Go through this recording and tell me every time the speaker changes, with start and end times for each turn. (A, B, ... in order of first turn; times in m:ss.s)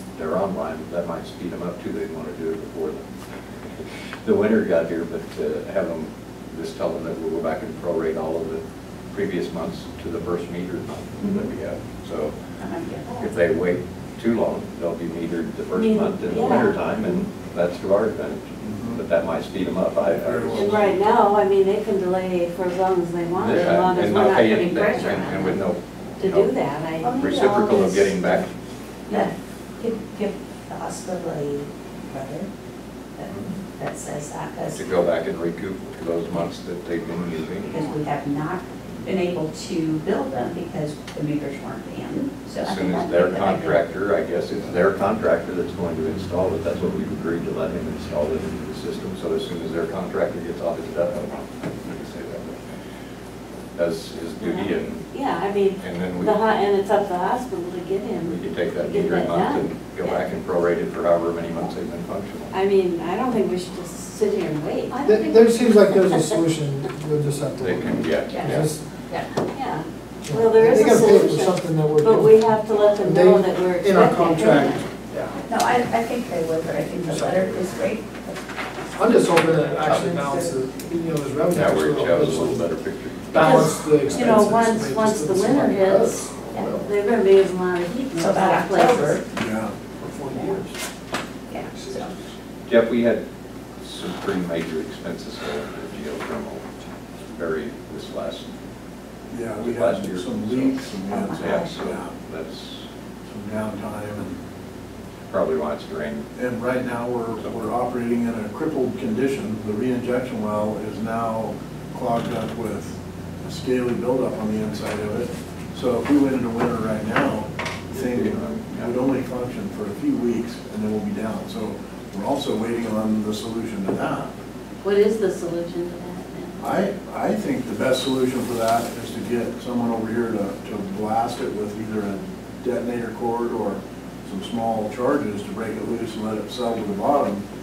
0:00.2-0:03.1 A
0:03.8-0:12.4 A
0:11.2-0:11.5 B
0:12.6-0:13.3 B
0:13.2-0:20.9 A
0:15.7-0:17.2 C
0:18.6-0:19.0 D
0:20.0-0:21.0 D
0:20.5-0:28.4 C
0:23.4-0:26.5 A
0:27.0-0:28.0 B
0:27.1-0:28.5 A
0:29.1-0:32.5 B
0:33.2-0:34.9 B
0:34.7-0:37.8 A
0:37.7-0:43.8 B
0:42.6-0:52.6 A
0:53.7-0:55.1 A
0:54.4-1:00.3 C
0:55.8-0:56.4 A
0:58.3-1:02.5 A
1:02.5-1:06.4 C
1:05.0-1:08.8 E
1:07.6-1:08.7 A
1:08.3-1:09.3 B
1:09.5-1:14.9 C
1:10.3-1:15.4 E
1:15.5-1:18.4 B
1:17.0-1:17.9 E
1:19.0-1:22.7 E
1:19.3-1:20.9 B
1:21.5-1:23.5 A
1:23.3-1:26.9 E
1:23.3-1:29.2 C
1:26.5-1:26.8 B
1:28.1-1:29.3 B
1:29.3-1:29.8 D
1:29.9-1:30.8 E
1:30.3-1:30.6 B
1:31.5-1:32.1 B
1:31.6-1:32.3 E
1:32.7-1:33.2 A
1:33.8-1:36.7 A
1:37.3-1:38.5 A
1:39.3-1:42.1 D
1:39.6-1:42.9 A
1:41.1-1:41.8 B
1:43.2-1:44.3 D
1:45.3-1:46.3 A
1:46.4-2:04.3 D
1:47.4-1:47.7 A
1:57.9-1:58.9 A
2:04.8-2:06.8 C
2:06.6-2:17.4 D